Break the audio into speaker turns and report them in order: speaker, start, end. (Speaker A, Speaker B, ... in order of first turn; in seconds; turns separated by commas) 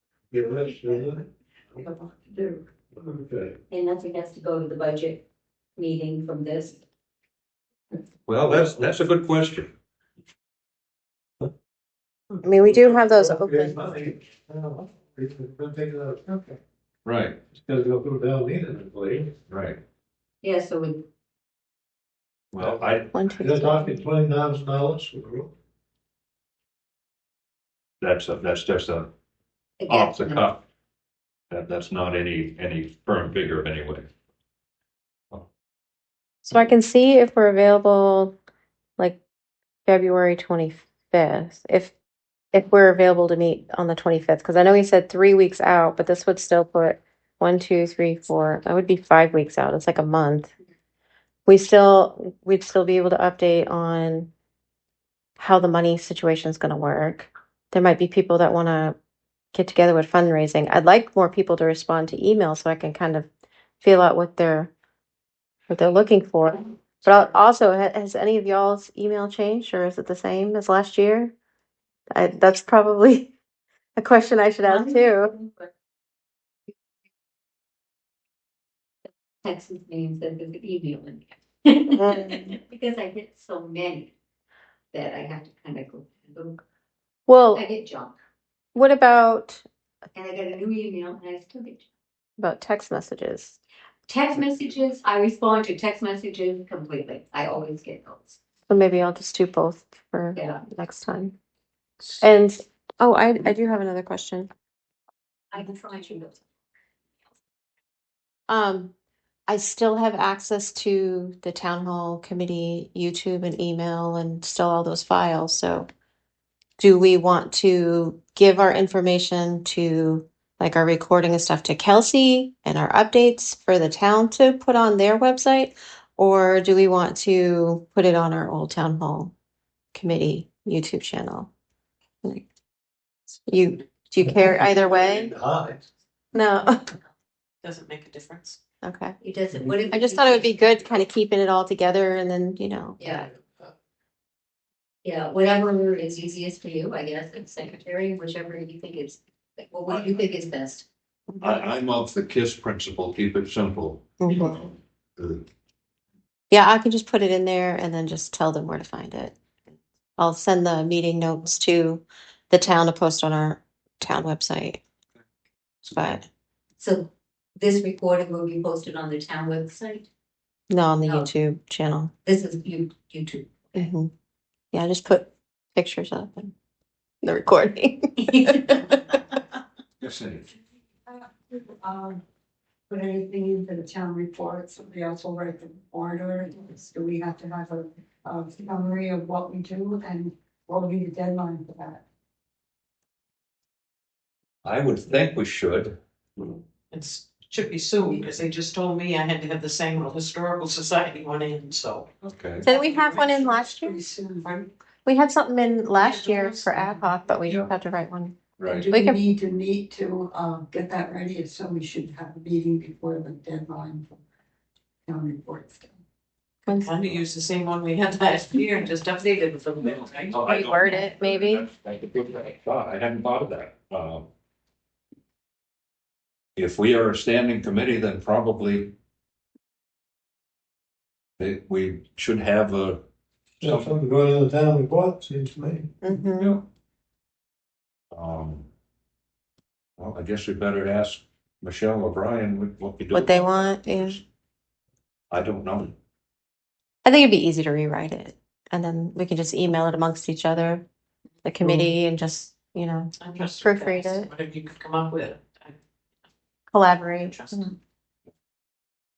Speaker A: 0.3-1.3, Speaker B: 1.8-2.6, Speaker A: 3.0-3.6, Speaker C: 3.7-5.2, Speaker C: 5.8-6.8, Speaker D: 8.3-9.7, Speaker A: 8.4-8.9, Speaker E: 12.4-13.8, Speaker A: 12.6-16.6, Speaker D: 17.0-17.4, Speaker A: 17.5-19.3, Speaker D: 19.5-19.8, Speaker C: 20.4-21.0, Speaker D: 22.5-23.1, Speaker A: 22.6-25.5, Speaker E: 23.1-24.0, Speaker D: 28.0-29.1, Speaker C: 29.8-30.4, Speaker D: 29.9-30.6, Speaker D: 31.5-34.1, Speaker E: 36.5-38.4, Speaker E: 39.9-41.9, Speaker E: 42.5-50.5, Speaker E: 51.5-54.3, Speaker E: 55.4-59.0, Speaker E: 59.5-63.3, Speaker E: 63.8-64.7, Speaker E: 65.7-71.3, Speaker E: 72.1-73.3, Speaker E: 74.0-75.3, Speaker C: 74.7-75.7, Speaker C: 79.4-84.1, Speaker E: 81.9-82.6, Speaker C: 84.9-86.6, Speaker E: 87.3-87.6, Speaker C: 87.5-88.2, Speaker E: 88.8-89.6, Speaker C: 90.1-91.9, Speaker E: 92.4-93.6, Speaker C: 94.1-98.4, Speaker E: 98.7-101.3, Speaker C: 100.3-100.6, Speaker E: 102.2-104.5, Speaker C: 105.5-106.4, Speaker E: 108.5-108.9, Speaker E: 109.5-115.9, Speaker E: 116.8-129.3, Speaker E: 129.9-131.5, Speaker E: 133.5-135.3, Speaker A: 134.2-135.9, Speaker E: 136.3-136.9, Speaker F: 137.6-138.6, Speaker E: 138.8-139.2, Speaker C: 139.2-140.7, Speaker E: 139.9-143.3, Speaker C: 143.0-143.3, Speaker C: 145.0-150.8, Speaker D: 151.4-155.4, Speaker E: 154.2-154.6, Speaker E: 156.5-159.4, Speaker E: 160.2-164.8, Speaker E: 165.8-166.2, Speaker C: 166.8-170.1, Speaker E: 170.7-172.1, Speaker C: 171.0-171.3, Speaker C: 172.2-173.9, Speaker E: 173.8-174.1, Speaker E: 174.7-176.5, Speaker E: 177.2-178.8, Speaker C: 178.3-178.7, Speaker D: 180.0-180.5, Speaker B: 181.1-182.2, Speaker B: 182.9-192.0, Speaker D: 194.6-195.9, Speaker F: 196.9-202.1, Speaker D: 202.2-202.7, Speaker E: 202.6-204.0, Speaker B: 202.7-204.6, Speaker F: 202.9-203.4, Speaker E: 205.1-208.4, Speaker F: 206.0-206.9, Speaker D: 208.6-208.9, Speaker B: 208.7-214.1, Speaker E: 208.9-209.2, Speaker B: 215.1-216.0, Speaker F: 216.7-220.4, Speaker D: 219.8-224.3, Speaker E: 220.3-221.7, Speaker D: 226.6-228.9, Speaker D: 231.4-233.0, Speaker D: 233.6-233.9, Speaker A: 233.6-235.9, Speaker E: 236.0-236.6, Speaker D: 238.1-238.7, Speaker D: 240.0-244.2, Speaker E: 243.1-244.2, Speaker D: 245.3-246.0, Speaker E: 247.1-250.9, Speaker E: 251.4-254.3, Speaker F: 253.2-255.8, Speaker E: 256.7-257.7, Speaker F: 257.2-257.7